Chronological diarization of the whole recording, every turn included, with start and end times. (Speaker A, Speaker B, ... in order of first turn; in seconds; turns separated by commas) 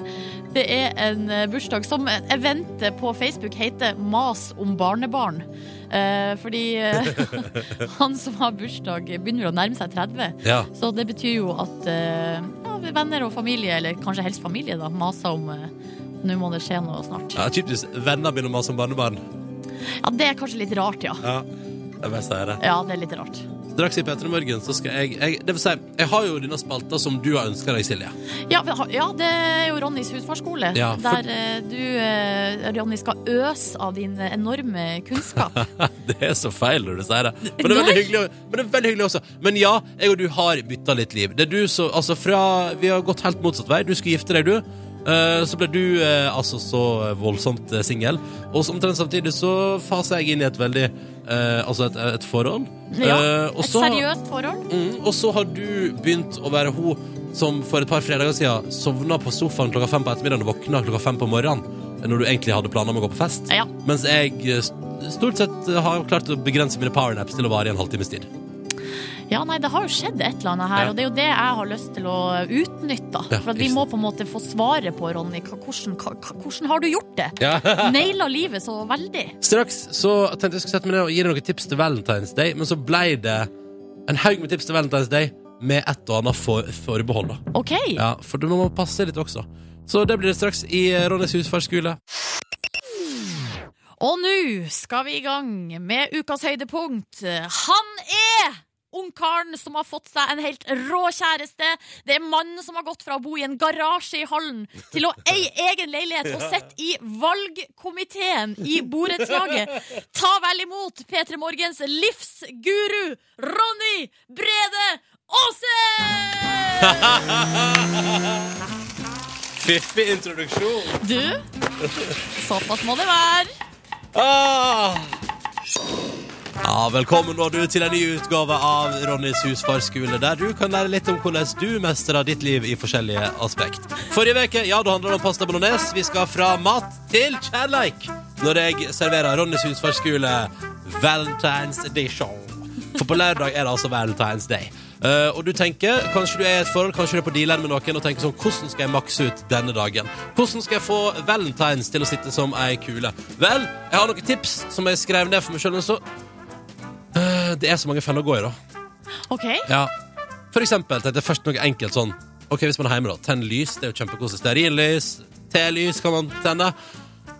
Speaker A: 0.5-15.7, Speaker B: 7.0-7.6, Speaker B: 10.4-10.7, Speaker A: 16.2-17.4, Speaker B: 17.4-19.2, Speaker A: 20.0-21.2, Speaker B: 21.2-21.5, Speaker B: 22.0-22.6, Speaker A: 22.6-23.4, Speaker B: 23.7-28.1, Speaker A: 28.5-35.6, Speaker B: 30.7-31.2, Speaker B: 35.3-54.0, Speaker A: 37.5-38.0, Speaker A: 52.9-54.7, Speaker B: 54.7-68.3, Speaker A: 69.3-79.4, Speaker B: 73.3-73.8, Speaker B: 77.4-78.1, Speaker B: 79.4-83.5, Speaker B: 84.0-87.4, Speaker A: 87.5-88.0, Speaker B: 87.9-92.0, Speaker A: 94.0-117.1, Speaker B: 116.8-118.4, Speaker B: 119.5-121.0, Speaker A: 121.0-121.4, Speaker A: 122.4-123.5, Speaker B: 124.1-125.1, Speaker B: 126.6-156.0, Speaker B: 157.1-158.6, Speaker A: 159.3-159.7, Speaker B: 159.7-159.9, Speaker B: 160.5-166.7